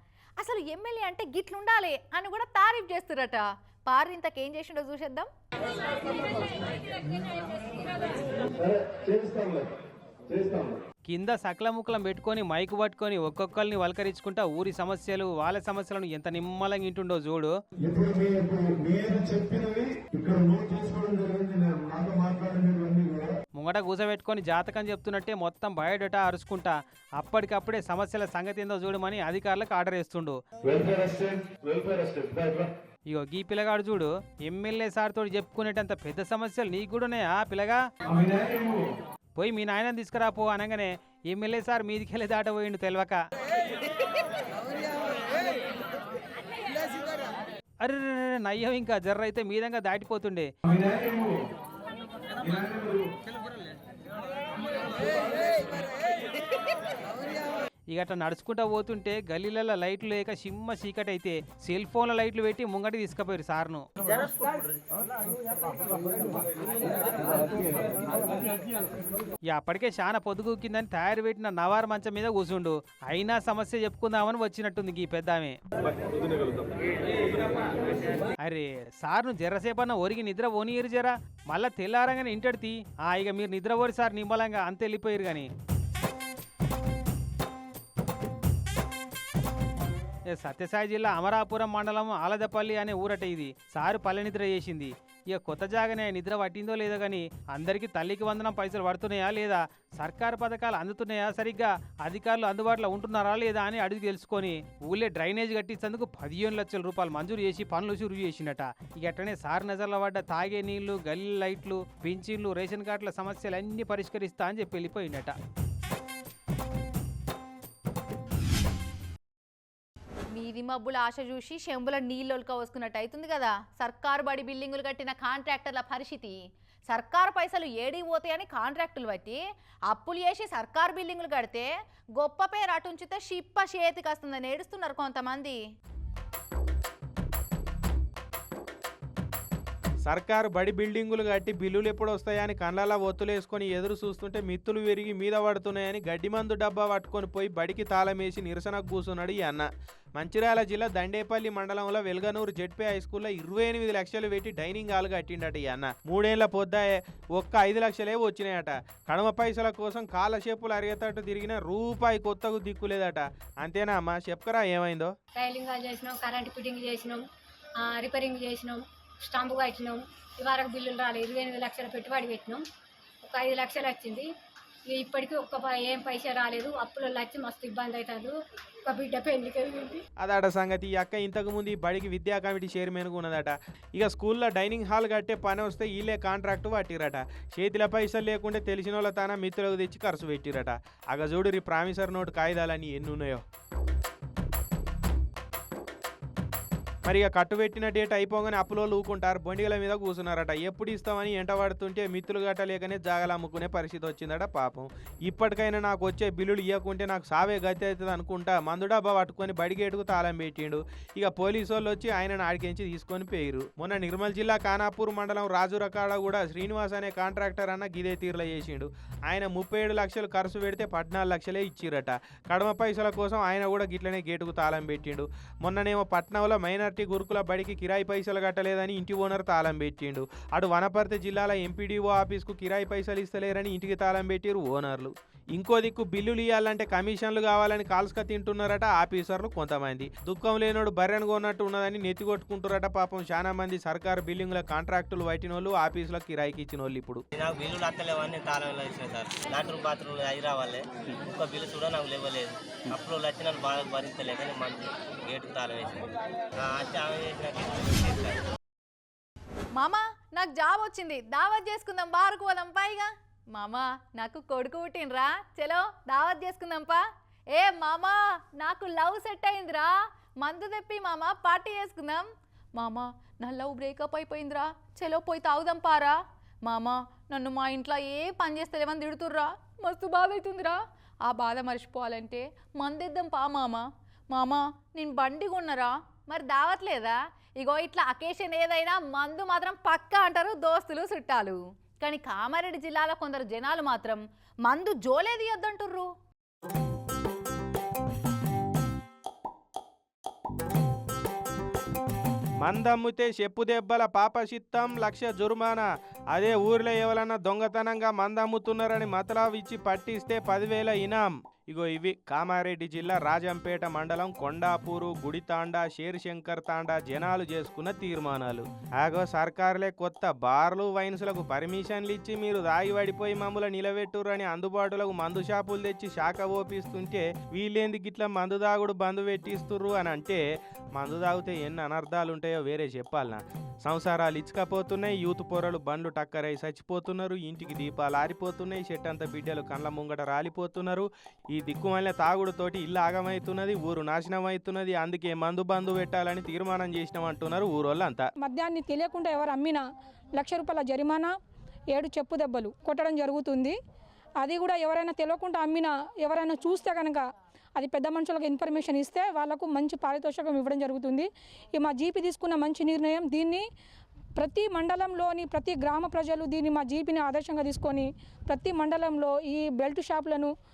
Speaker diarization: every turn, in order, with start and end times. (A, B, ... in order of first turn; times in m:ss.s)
0:00.4-0:05.3 A
0:08.6-0:09.7 B
0:10.3-0:10.8 B
0:11.1-0:17.5 C
0:17.8-0:23.3 B
0:23.6-0:30.4 C
0:30.6-0:32.7 B
0:33.1-0:37.8 C
0:39.4-0:43.2 C
0:47.8-0:50.5 C
0:50.8-0:51.3 B
0:52.5-0:53.0 B
0:57.9-1:03.8 C
1:09.5-1:15.6 C
1:18.4-1:25.5 C
1:30.3-1:55.3 C
2:00.3-2:06.4 A
2:06.9-2:15.6 A
2:20.0-2:45.1 D
2:45.3-2:47.2 E
2:47.8-2:52.6 E
2:53.2-2:54.3 E
2:54.9-3:00.0 E
3:00.2-3:13.4 D
3:17.0-4:07.2 D
4:07.3-4:16.0 F
4:16.6-4:18.4 F
4:19.8-4:27.0 A
4:27.5-4:56.1 A
5:02.6-5:30.4 D
5:30.9-5:48.3 D
5:48.4-5:49.8 G
5:50.4-5:51.3 G
5:51.9-5:53.7 G
5:54.4-5:57.2 G
5:57.8-6:03.6 G
6:04.4-6:10.5 G